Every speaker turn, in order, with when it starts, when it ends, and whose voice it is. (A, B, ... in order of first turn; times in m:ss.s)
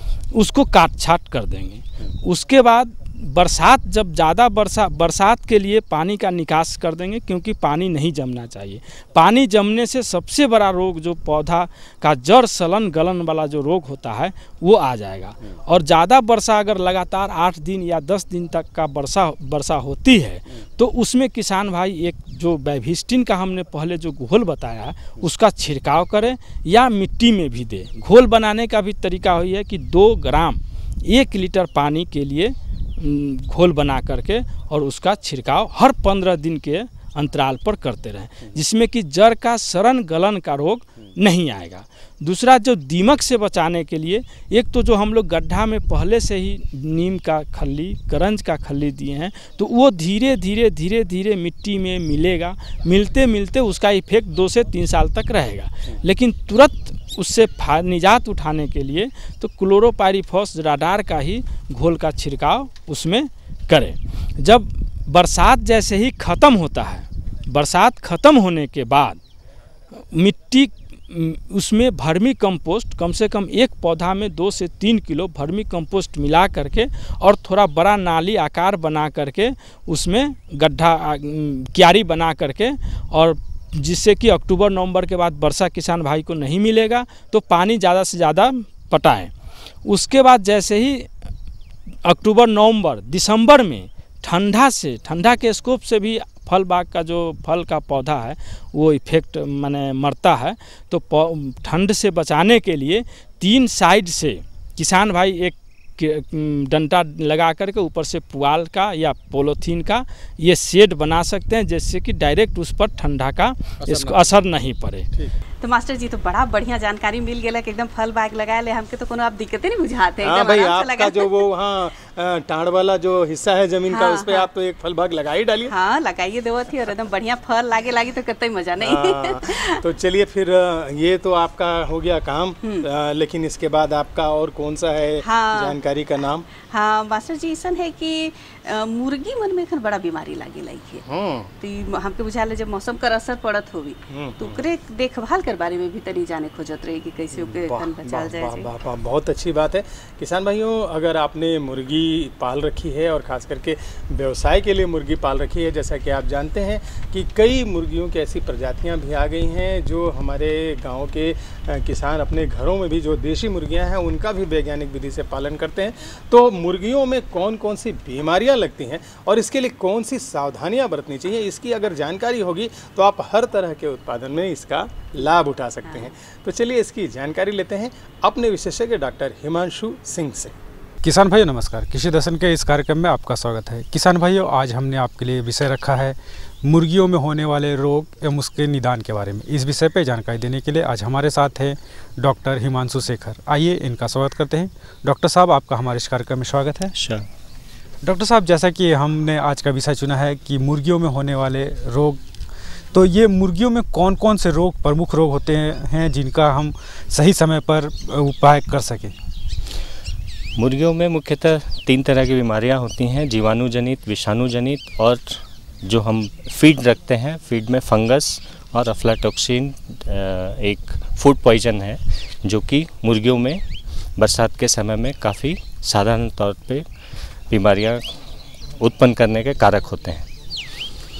0:00.3-1:09.2 A
1:10.0-1:29.3 A
1:29.8-1:31.1 A
1:32.0-1:55.1 A
1:55.6-2:01.5 B
2:00.2-2:05.7 C
2:03.9-2:04.5 B
2:05.6-2:09.8 B
2:08.8-2:16.5 C
2:12.6-2:12.9 B
2:15.2-2:15.8 B
2:16.6-2:21.0 B
2:21.1-2:21.5 C
2:21.6-2:28.7 B
2:24.1-2:24.6 C
2:27.3-3:00.5 C
2:55.8-2:56.1 B
3:01.0-3:16.9 D
3:17.0-3:17.2 E
3:18.0-3:22.3 D
3:22.9-3:29.2 D
3:30.6-3:43.6 E
3:44.2-3:46.8 E
3:47.5-3:48.0 E
3:48.8-3:50.3 E